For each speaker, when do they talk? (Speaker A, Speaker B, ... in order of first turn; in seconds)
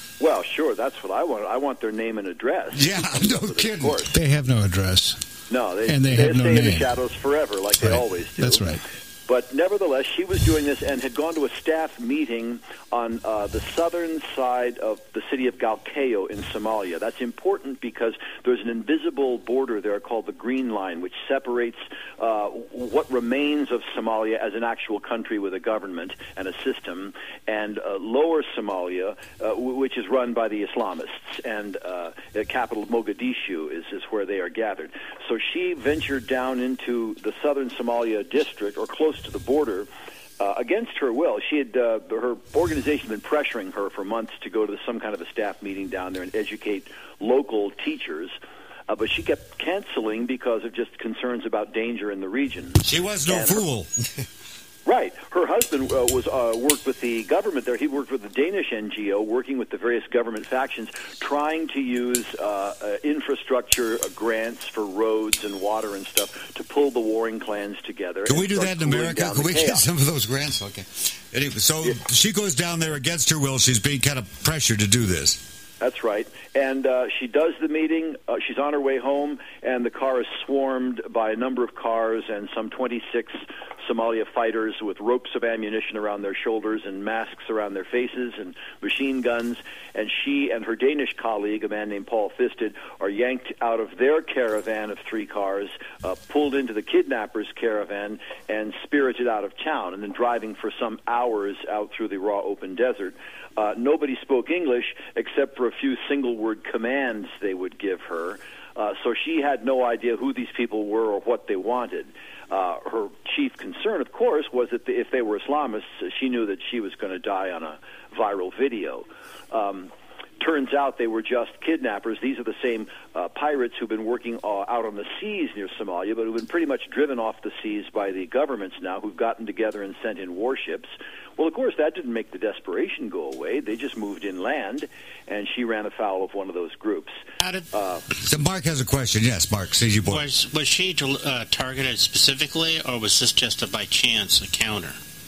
Speaker A: 0.2-4.1, 5.5-39.9, 40.4-48.4, 48.9-53.6, 54.9-69.8, 75.8-137.2, 137.7-138.0
Speaker B: 2.7-4.1, 52.8-53.9, 68.2-75.4, 138.2-140.2
Speaker C: 4.1-5.2, 5.9-6.9, 7.8-8.8
Speaker D: 137.4-137.7, 140.1-145.0